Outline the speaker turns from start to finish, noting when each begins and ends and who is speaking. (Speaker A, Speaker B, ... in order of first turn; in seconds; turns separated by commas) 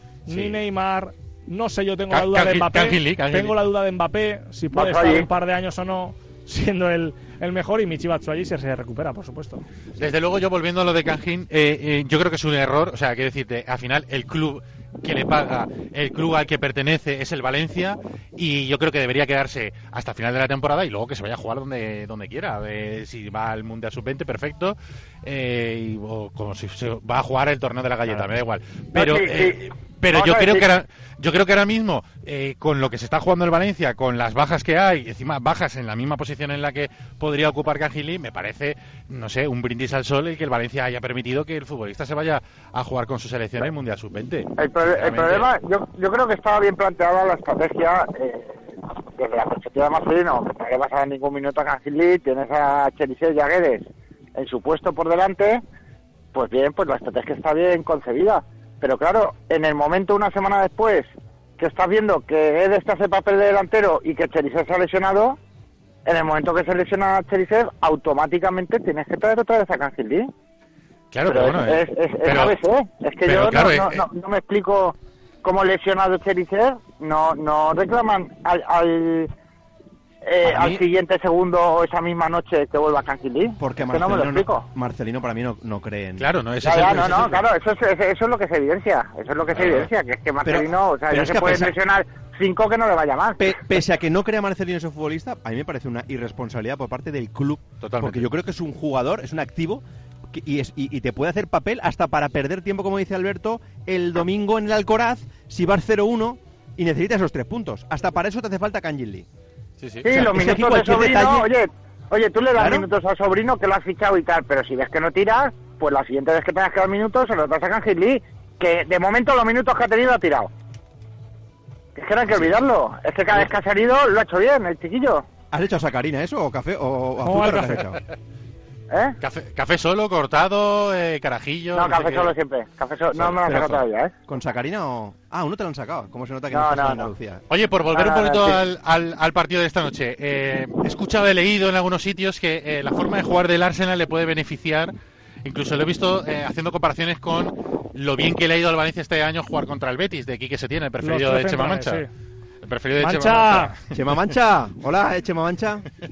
Speaker A: 0.3-9.6, Speaker B: 0.3-0.6, Speaker B: 2.1-3.6, Speaker C: 4.7-5.3, Speaker B: 10.0-45.5, Speaker C: 28.9-30.7, Speaker C: 44.6-48.6, Speaker C: 49.1-55.6, Speaker C: 56.3-65.4, Speaker C: 66.0-70.3, Speaker B: 71.1-72.5, Speaker C: 71.2-79.3, Speaker B: 73.2-74.0, Speaker C: 80.2-84.6, Speaker D: 80.4-80.8, Speaker D: 83.6-86.3, Speaker B: 86.2-87.4, Speaker C: 86.6-93.5, Speaker D: 86.9-87.2, Speaker D: 90.4-91.7, Speaker D: 93.4-109.3, Speaker B: 97.8-98.3, Speaker B: 109.8-110.1, Speaker C: 110.0-120.5, Speaker D: 110.0-111.5, Speaker D: 112.5-112.9, Speaker C: 122.0-125.2, Speaker D: 125.5-128.0, Speaker A: 127.2-127.8, Speaker B: 129.2-132.3, Speaker C: 131.7-134.1, Speaker D: 133.2-137.4, Speaker C: 136.5-137.1, Speaker B: 137.5-144.9, Speaker C: 137.9-138.6, Speaker B: 145.4-152.0, Speaker A: 151.0-152.1, Speaker B: 152.6-153.8, Speaker A: 153.0-153.7, Speaker D: 153.9-155.8